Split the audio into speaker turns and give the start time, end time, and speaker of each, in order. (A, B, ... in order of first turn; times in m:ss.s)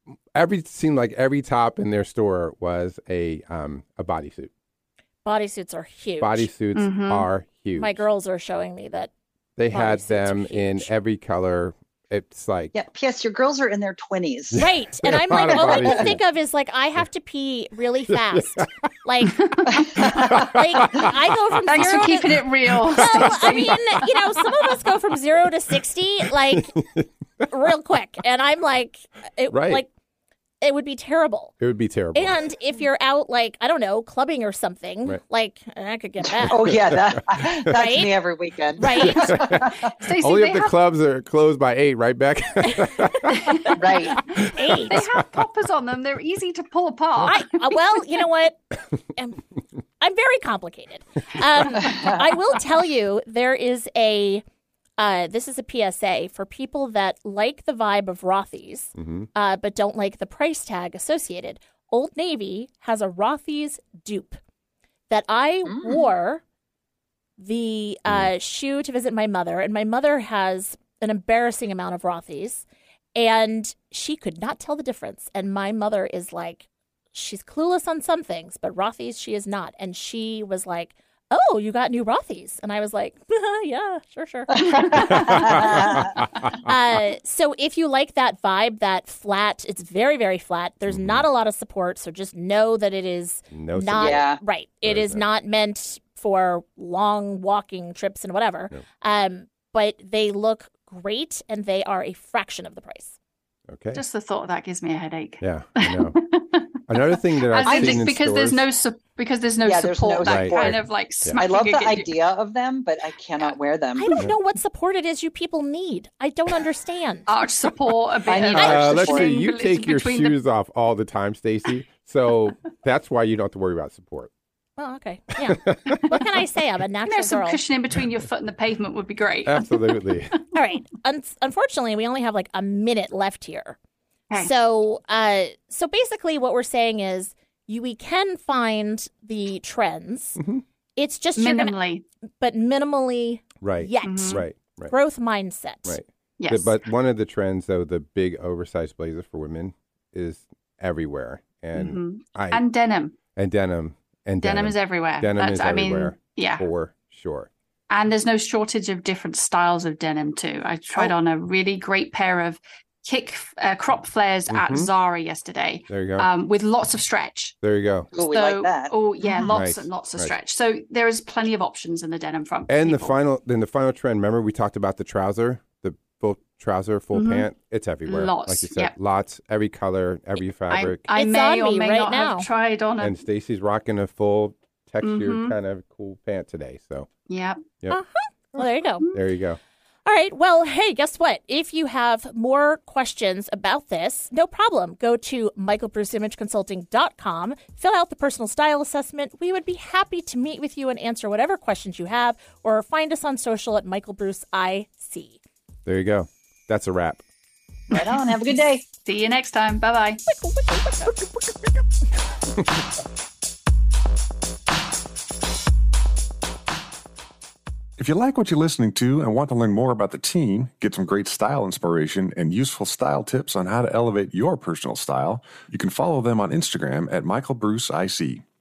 0:00.3-0:04.5 A
0:05.2-0:06.5 B
0:06.2-0:08.0 A
0:06.8-0:07.3 C
0:07.8-0:09.1 B
0:09.6-0:12.7 A
0:09.7-0:10.9 B
0:12.7-0:14.7 D
0:14.5-0:16.2 A
0:14.6-0:26.8 B
0:15.5-0:16.0 D
0:18.1-0:18.7 A
0:19.4-0:20.2 C
0:19.7-0:20.4 D
0:20.0-0:24.8 A
0:21.7-0:24.0 C
0:26.5-0:27.4 A
0:27.5-0:29.9 B
0:29.5-0:29.8 A
0:30.6-0:31.5 B
0:31.6-0:32.4 A
0:32.1-0:36.6 B
0:36.3-0:39.9 D
0:36.6-0:37.7 A
0:37.7-0:38.2 B
0:38.8-0:39.6 B
0:39.0-0:43.8 A
0:40.0-0:40.8 C
0:43.3-0:43.8 C
0:43.8-0:44.2 D
0:44.3-0:45.4 A
0:44.4-0:47.8 C
0:44.5-0:45.0 B
0:47.3-0:48.6 B
0:49.1-0:49.4 B
0:50.0-0:54.4 B
0:55.0-1:04.4 B
0:59.0-0:59.3 A
1:05.1-1:06.4 B
1:05.7-1:06.1 D
1:07.4-1:12.6 B
1:13.2-1:43.2 B
1:24.5-1:26.2 D
1:25.1-1:26.7 A
1:30.9-1:31.2 A
1:33.5-1:34.3 A
1:34.0-1:34.4 D
1:34.8-1:35.3 A
1:43.7-1:44.0 A
1:43.9-1:52.1 C
1:45.4-1:46.2 A
1:46.9-1:48.6 A
1:47.6-1:48.1 D
1:49.6-1:50.8 D
1:50.2-1:51.4 A
1:51.4-1:54.2 D
1:54.0-1:57.3 B
1:57.3-2:00.4 C
1:58.3-1:59.3 D
1:58.5-2:04.3 A
2:04.8-2:07.6 B
2:05.4-2:06.2 A
2:07.1-2:10.3 C
2:09.5-2:10.4 A
2:10.5-2:13.8 B
2:14.4-2:20.4 B
2:20.4-2:20.6 A
2:21.0-2:21.8 B
2:21.4-2:22.0 C
2:22.4-2:26.0 B
2:23.6-2:24.9 A
2:24.0-2:24.4 C
2:25.9-2:32.6 A
2:26.4-2:26.8 C
2:31.7-2:33.2 C
2:33.4-2:37.5 A
2:34.4-2:36.7 C
2:37.9-2:47.6 C
2:44.5-2:44.9 A
2:45.9-2:46.3 A
2:47.6-2:48.1 A
2:48.1-2:49.5 D
2:48.2-2:53.2 C
2:49.5-2:50.3 A
2:52.7-3:01.0 A
2:57.1-2:57.5 C
2:58.0-2:58.9 C
3:00.7-3:03.2 C
3:01.2-3:02.5 B
3:03.0-3:07.1 A
3:05.0-3:05.6 C
3:07.3-3:07.6 C
3:07.9-3:09.1 B
3:08.5-3:09.6 A
3:10.1-3:25.4 B
3:25.9-3:27.2 A
3:27.9-3:28.8 D
3:28.0-3:28.3 C
3:28.9-3:30.2 C
3:30.3-3:31.1 B
3:38.0-3:48.4 E